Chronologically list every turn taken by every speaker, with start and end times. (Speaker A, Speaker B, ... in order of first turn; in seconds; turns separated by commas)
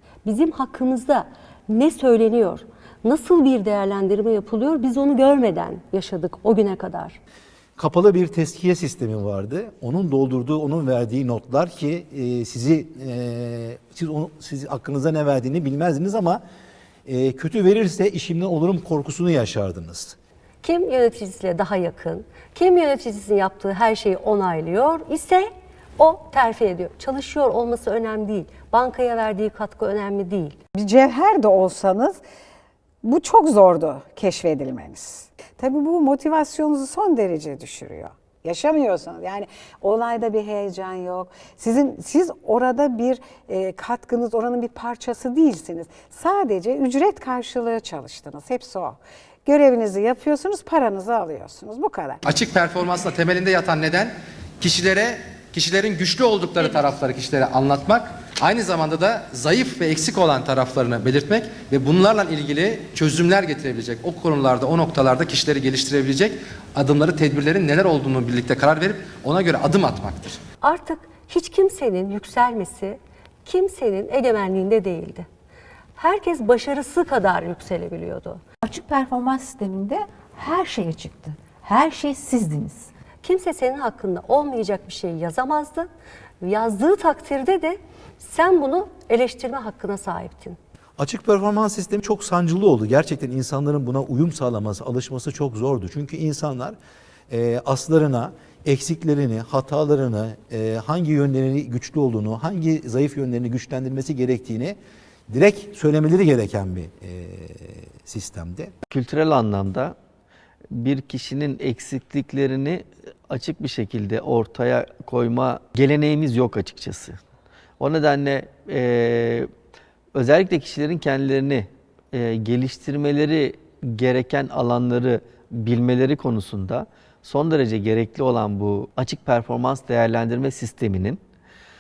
Speaker A: 0.2-7.2, Speaker B: 7.8-16.4, Speaker B: 17.1-20.2, Speaker A: 20.6-25.5, Speaker A: 26.0-30.6, Speaker C: 30.8-32.2, Speaker C: 33.0-52.2, Speaker D: 52.2-70.4, Speaker A: 70.6-75.3, Speaker A: 76.0-78.4, Speaker E: 78.6-82.9, Speaker A: 83.2-85.9, Speaker A: 86.4-90.6, Speaker B: 91.0-96.8, Speaker B: 97.3-104.8, Speaker B: 105.3-108.7, Speaker F: 108.9-110.0, Speaker F: 110.7-117.2, Speaker F: 117.8-119.5, Speaker F: 120.2-131.2